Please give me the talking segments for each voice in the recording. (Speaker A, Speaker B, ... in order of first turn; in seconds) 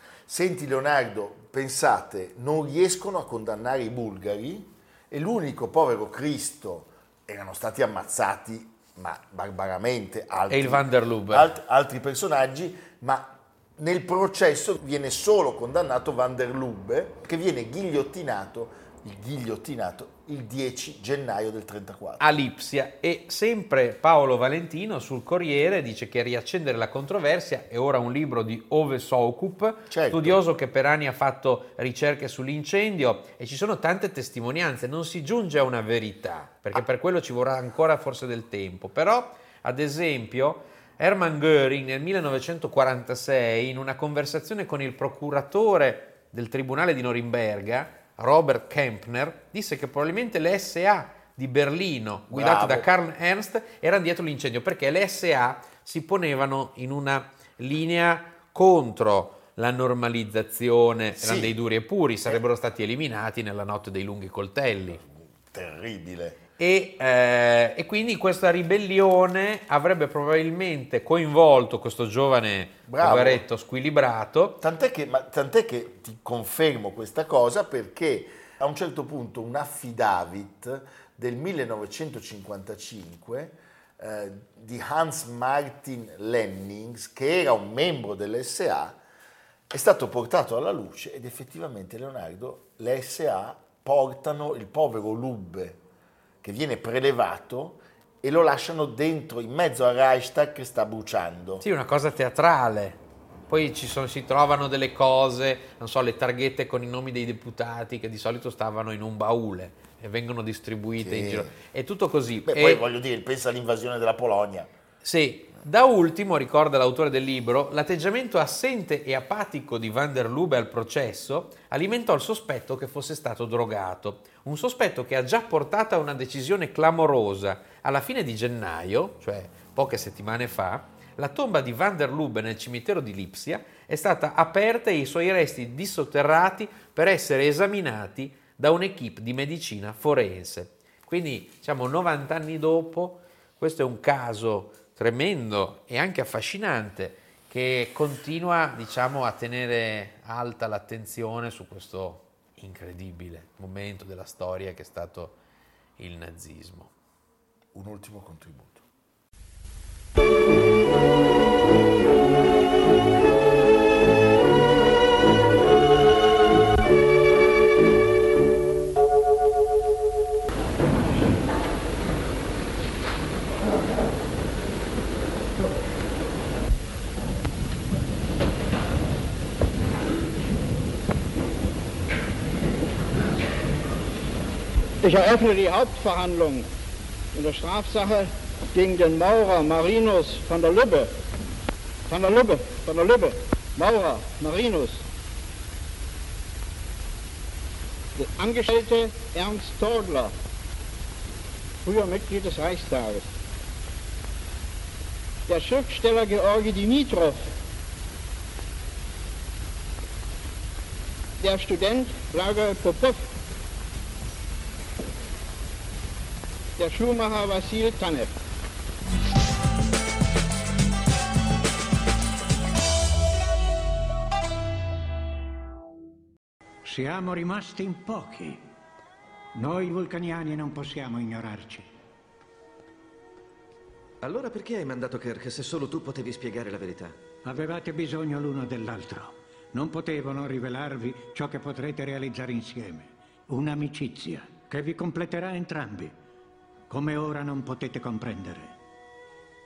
Speaker A: 0.3-22.4, 29.9-30.4, 52.3-52.9, 61.2-61.6, 65.0-66.4, 72.9-73.4, 74.6-89.0, 89.7-95.8, 96.4-101.6, 111.0-111.5, 112.4-114.7, 157.7-158.8
Speaker B: 10.5-11.5, 22.2-65.0, 66.6-74.6, 101.6-112.8, 115.0-155.4, 156.0-156.9
Speaker C: 185.0-186.7, 187.3-191.1, 192.1-195.0, 198.2-200.3, 201.8-203.2, 205.5-207.5, 211.4-213.3, 216.8-218.3
Speaker D: 226.8-228.6, 229.5-231.8, 237.4-246.1, 246.9-248.8
Speaker E: 234.2-237.2